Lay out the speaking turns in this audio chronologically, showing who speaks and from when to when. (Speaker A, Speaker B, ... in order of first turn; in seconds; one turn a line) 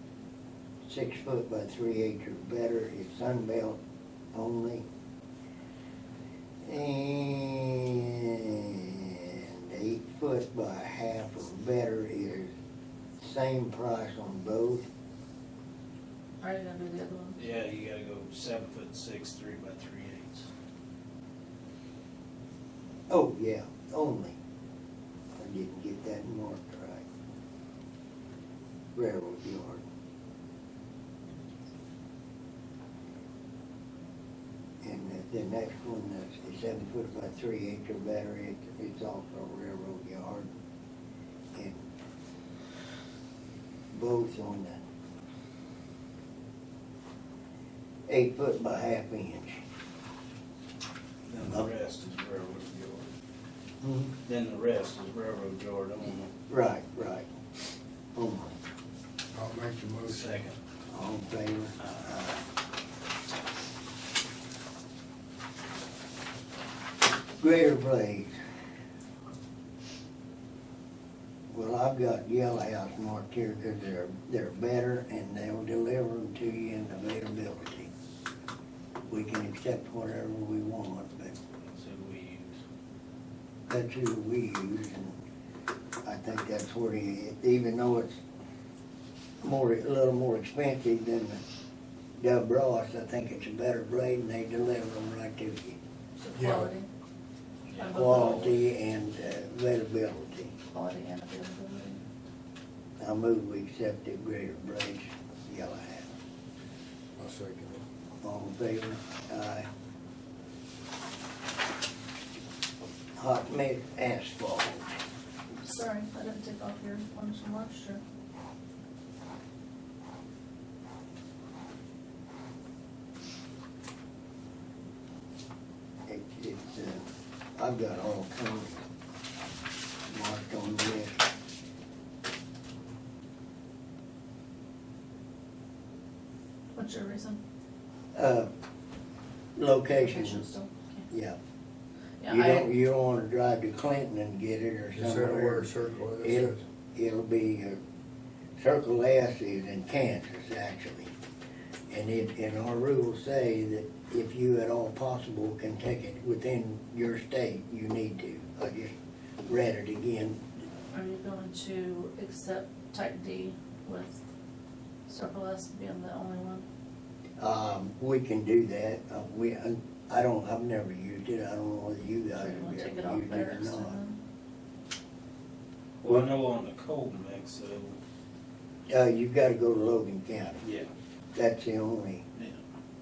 Speaker A: 0.8-3.8
Speaker A: 4.3-4.8
Speaker A: 6.7-12.5
Speaker A: 13.2-14.9
Speaker B: 16.4-17.4
Speaker C: 17.4-20.5
Speaker A: 23.1-24.4
Speaker A: 25.4-27.1
Speaker A: 28.9-29.8
Speaker A: 34.8-40.5
Speaker A: 41.5-41.8
Speaker A: 43.9-44.9
Speaker A: 48.1-49.6
Speaker C: 51.3-53.1
Speaker A: 53.8-54.1
Speaker C: 54.3-56.3
Speaker A: 56.5-57.3
Speaker A: 58.1-58.6
Speaker D: 59.3-60.4
Speaker C: 60.1-60.6
Speaker A: 60.9-62.4
Speaker A: 67.4-68.3
Speaker A: 71.5-77.9
Speaker A: 79.1-81.4
Speaker C: 81.6-82.6
Speaker A: 83.7-85.2
Speaker A: 86.0-88.2
Speaker A: 89.4-91.4
Speaker A: 92.2-95.8
Speaker B: 96.2-96.9
Speaker D: 96.4-96.7
Speaker C: 97.7-98.5
Speaker B: 97.8-98.5
Speaker A: 97.9-100.5
Speaker B: 100.7-102.0
Speaker A: 103.0-106.1
Speaker D: 107.2-107.8
Speaker A: 108.2-109.7
Speaker A: 113.2-114.9
Speaker B: 115.6-118.0
Speaker A: 126.1-127.0
Speaker A: 127.6-128.8
Speaker A: 130.1-131.2
Speaker B: 136.8-137.4
Speaker A: 138.2-138.5
Speaker A: 139.6-140.4
Speaker B: 139.9-141.1
Speaker A: 141.1-141.4
Speaker B: 142.2-142.7
Speaker A: 142.3-145.7
Speaker D: 144.9-146.6
Speaker A: 146.2-147.8
Speaker A: 148.6-151.1
Speaker A: 151.9-158.9
Speaker A: 159.5-160.4
Speaker B: 160.9-164.2
Speaker B: 165.1-166.6
Speaker A: 167.4-174.0
Speaker B: 172.3-174.2
Speaker C: 176.0-177.9
Speaker A: 178.9-180.6
Speaker C: 180.6-180.9
Speaker A: 181.3-182.2
Speaker C: 182.4-182.6